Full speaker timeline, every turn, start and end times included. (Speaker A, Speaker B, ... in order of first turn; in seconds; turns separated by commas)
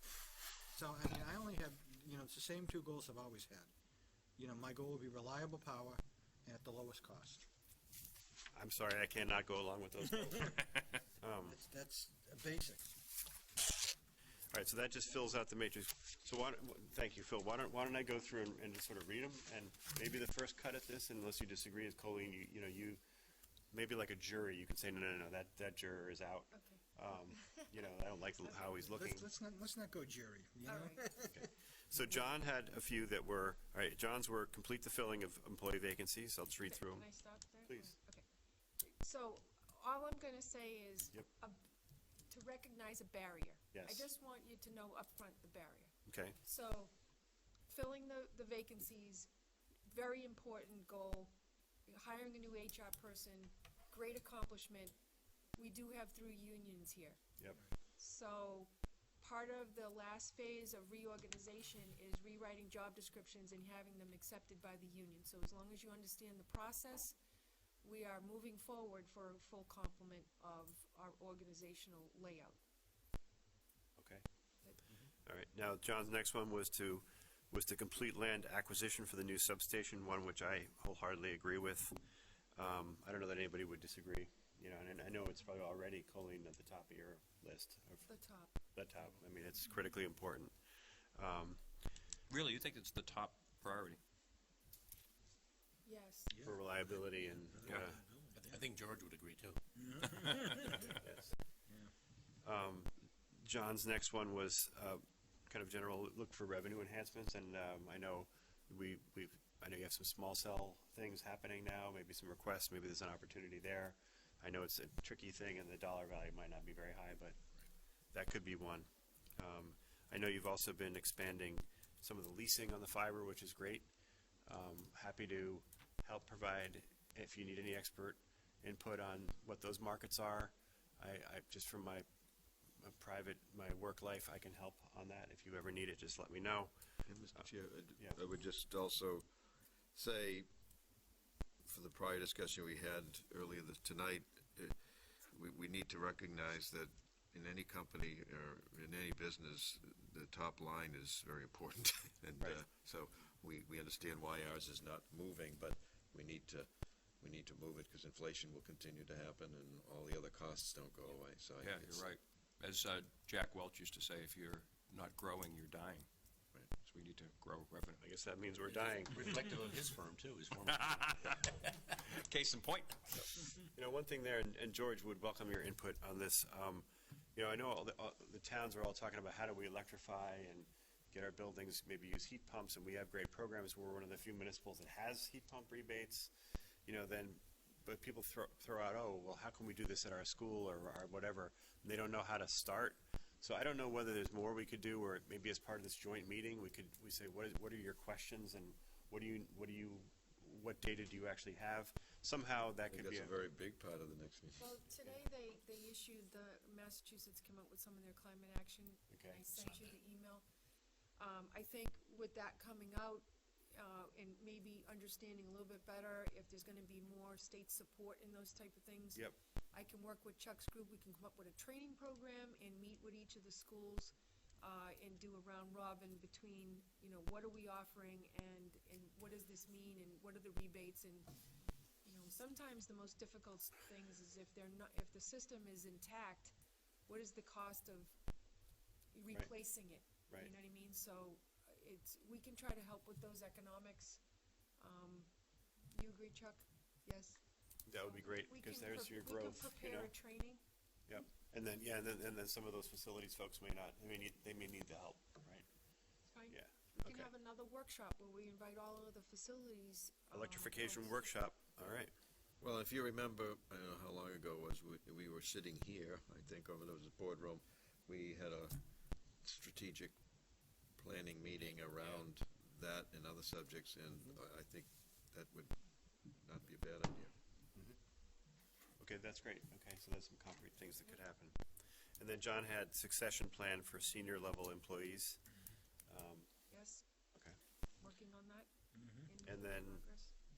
Speaker A: 0.7-3.7, Speaker A: 4.4-7.4, Speaker B: 8.5-10.7, Speaker B: 11.2-11.6, Speaker A: 11.4-12.9, Speaker B: 14.5-23.0, Speaker B: 23.7-29.3, Speaker C: 26.5-27.6, Speaker A: 28.9-31.4, Speaker C: 30.6-31.1, Speaker B: 31.3-37.0, Speaker C: 36.6-38.2, Speaker B: 37.7-37.9, Speaker C: 38.8-41.6, Speaker C: 42.3-46.9, Speaker B: 43.7-44.1, Speaker B: 46.0-46.4, Speaker C: 47.6-49.3, Speaker C: 49.8-51.3, Speaker C: 51.9-54.9, Speaker C: 55.5-57.2, Speaker C: 58.0-67.2, Speaker C: 67.8-72.6, Speaker B: 74.0-74.2, Speaker B: 75.2-82.0, Speaker B: 82.5-88.1, Speaker C: 88.1-88.5, Speaker B: 88.7-90.5, Speaker B: 91.1-91.6, Speaker D: 92.3-94.0, Speaker C: 95.8-96.3, Speaker B: 96.4-98.0, Speaker A: 97.7-98.7, Speaker E: 98.4-99.6, Speaker A: 99.8-100.9, Speaker B: 101.0-101.3, Speaker B: 102.4-117.4, Speaker B: 118.1-123.9, Speaker B: 124.5-132.1, Speaker B: 132.8-136.7, Speaker F: 137.1-140.5, Speaker F: 141.6-162.1, Speaker D: 161.6-166.1, Speaker D: 166.7-168.0, Speaker B: 168.0-169.4, Speaker E: 168.7-171.4, Speaker D: 170.8-171.3, Speaker D: 172.1-173.1, Speaker B: 173.7-186.3, Speaker B: 186.8-203.4, Speaker F: 202.9-204.8, Speaker C: 204.6-210.4, Speaker B: 209.1-209.5, Speaker C: 211.2-231.3, Speaker C: 232.0-236.5, Speaker C: 237.1-238.1, Speaker C: 239.1-244.2, Speaker C: 244.8-245.3, Speaker C: 245.9-247.4, Speaker B: 247.9-250.1, Speaker C: 248.0-250.6, Speaker B: 251.1-255.7, Speaker C: 256.2-261.3, Speaker B: 256.5-257.3, Speaker B: 260.3-262.1, Speaker F: 262.6-277.3, Speaker B: 279.0-281.6, Speaker B: 282.2-285.4, Speaker B: 286.1-286.7, Speaker C: 286.7-287.0, Speaker C: 288.0-290.3, Speaker B: 289.4-290.1